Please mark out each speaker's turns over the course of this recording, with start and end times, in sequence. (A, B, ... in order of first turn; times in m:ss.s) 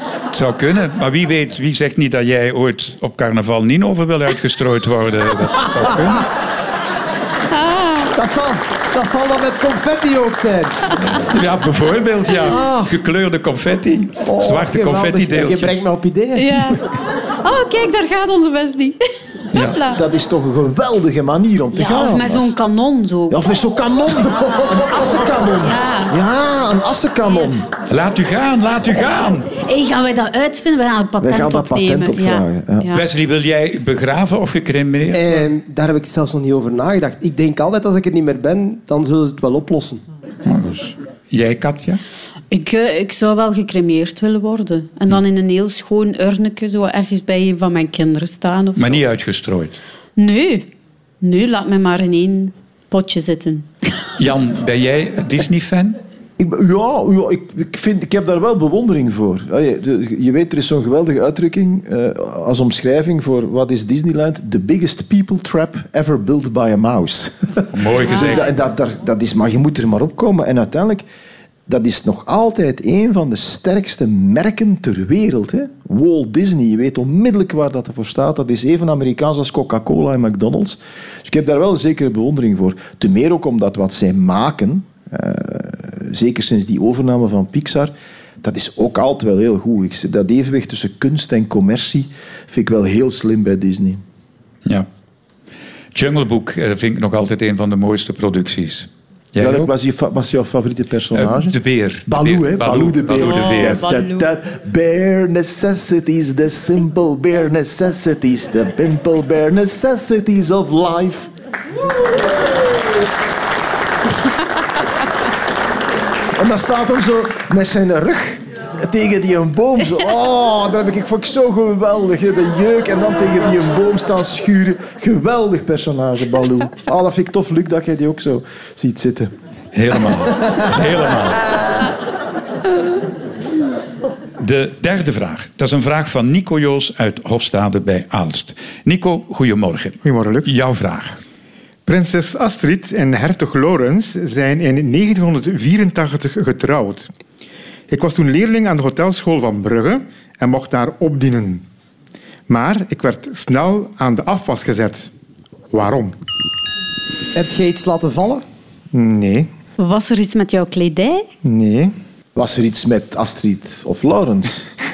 0:00.3-0:06.2 A
0:07.5-0:08.1 B
0:08.1-0:11.0 C
0:11.1-0:15.8 A
0:12.4-0:12.9 C
0:14.2-0:16.8 C
0:16.4-0:16.8 B
0:17.4-0:19.0 B
0:19.5-0:19.8 A
0:19.5-0:20.0 B
0:19.8-0:22.6 D
0:21.7-0:23.6 B
0:23.3-0:27.7 D
0:25.6-0:26.1 B
0:27.9-0:29.5 A
0:29.5-0:33.0 B
0:31.2-0:32.9 D
0:32.9-0:35.4 A
0:35.1-0:40.0 C
0:40.4-0:42.0 A
0:42.5-0:49.0 B
0:48.8-0:49.8 A
0:50.2-0:50.7 B
0:51.2-0:53.7 B
0:54.2-0:56.0 A
0:56.4-1:11.0 D
1:07.7-1:08.5 A
1:08.1-1:08.4 B
1:11.7-1:34.0 D
1:35.9-1:39.7 A
1:39.4-1:41.6 D
1:41.1-1:43.8 A
1:42.1-1:51.3 D
1:43.2-1:44.3 B
1:56.3-2:09.3 D
2:09.7-2:11.5 A
2:14.4-2:21.2 A
2:20.0-2:20.5 E
2:21.8-2:27.1 E
2:27.9-2:31.6 E
2:32.5-2:35.1 E
2:35.7-2:36.1 E
2:37.3-2:38.4 C
2:38.9-2:39.5 E
2:39.8-2:41.3 B
2:41.4-2:41.9 E
2:42.3-2:44.7 D